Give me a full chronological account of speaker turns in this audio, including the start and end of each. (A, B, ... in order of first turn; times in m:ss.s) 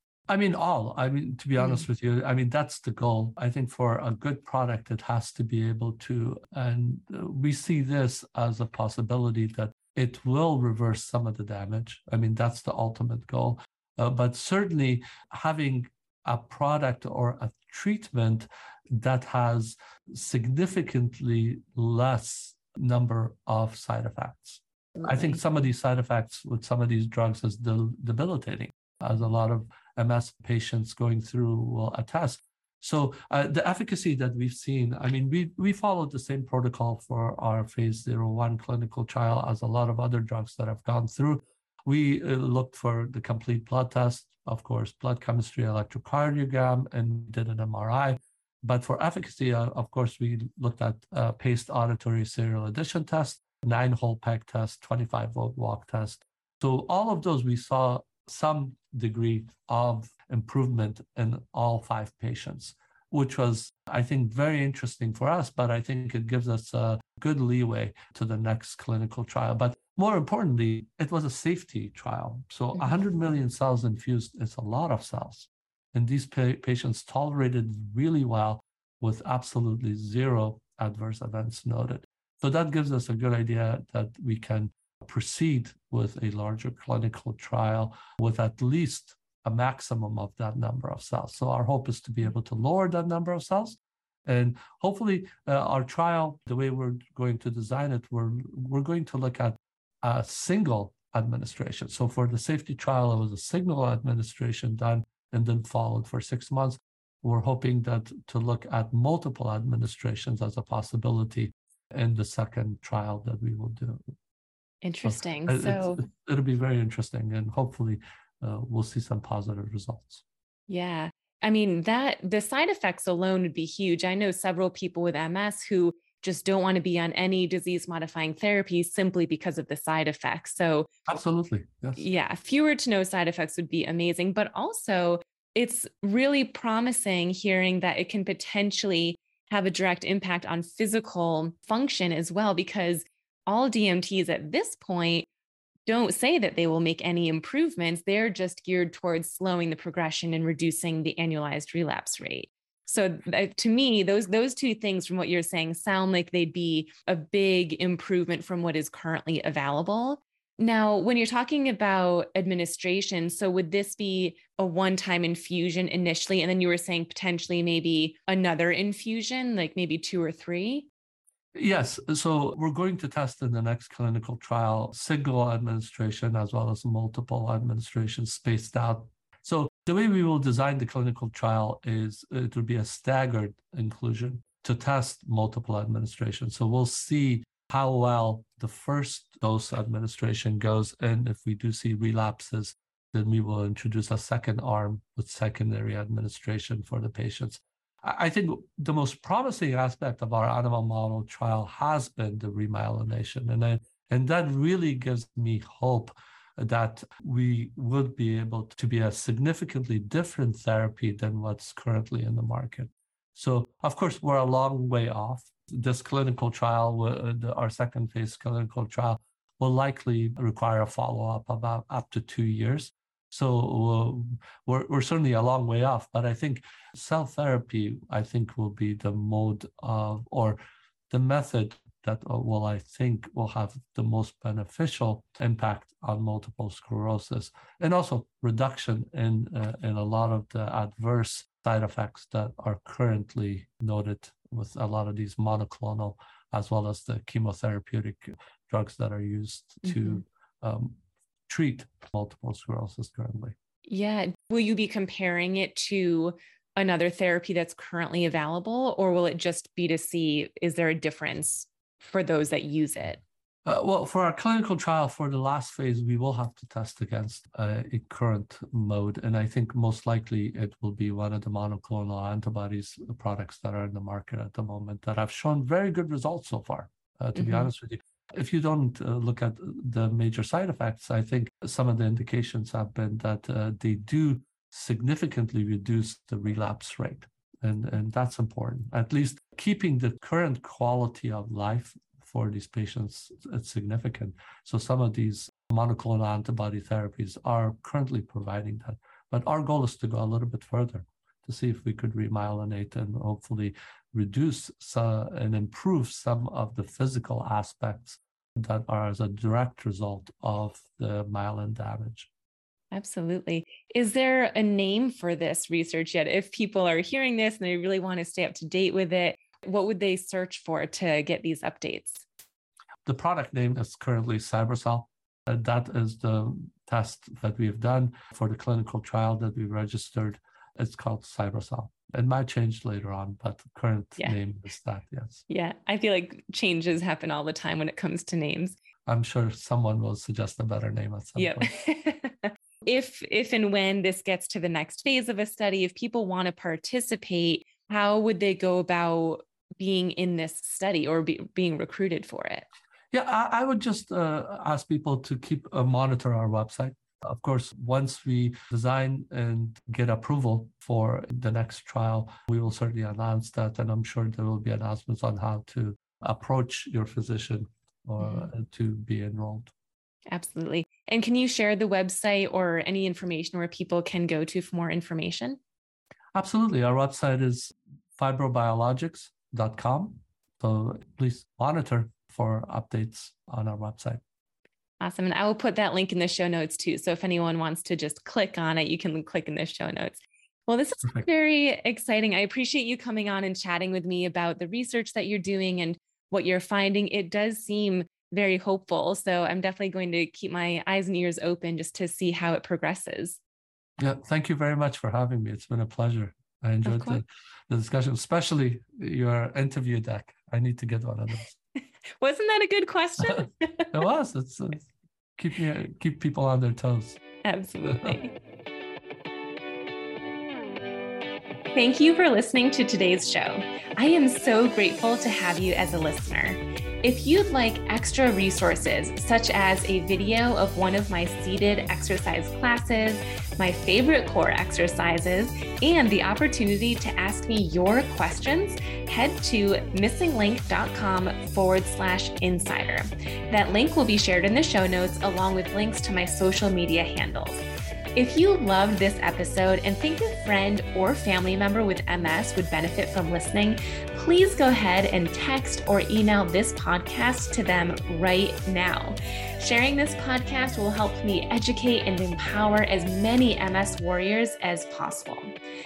0:00.3-1:54.1 A
0:01.6-0:01.8 B
1:54.8-1:56.0 B
1:55.0-2:00.2 A
2:00.7-2:10.9 B
2:11.1-2:12.0 A
2:12.0-2:25.3 B
2:25.9-2:50.9 B
2:51.5-3:50.6 A
3:51.1-4:11.0 A
4:09.9-4:10.2 B
4:11.5-4:13.6 A
4:13.9-4:23.2 B
4:23.6-5:12.3 A
4:37.4-4:37.7 B
5:12.9-5:22.2 B
5:23.1-5:35.4 A
5:35.5-5:38.8 B
5:39.1-5:41.7 A
5:41.4-5:52.6 B
5:53.1-6:09.7 A
6:08.2-6:08.5 B
6:10.3-6:15.6 B
6:16.3-6:24.2 A
6:25.0-6:43.4 B
6:44.0-6:51.6 A
6:46.9-6:47.2 B
6:52.2-6:53.9 B
6:53.3-6:57.2 A
6:57.4-6:58.4 B
7:01.8-7:27.6 B
7:28.1-7:45.5 B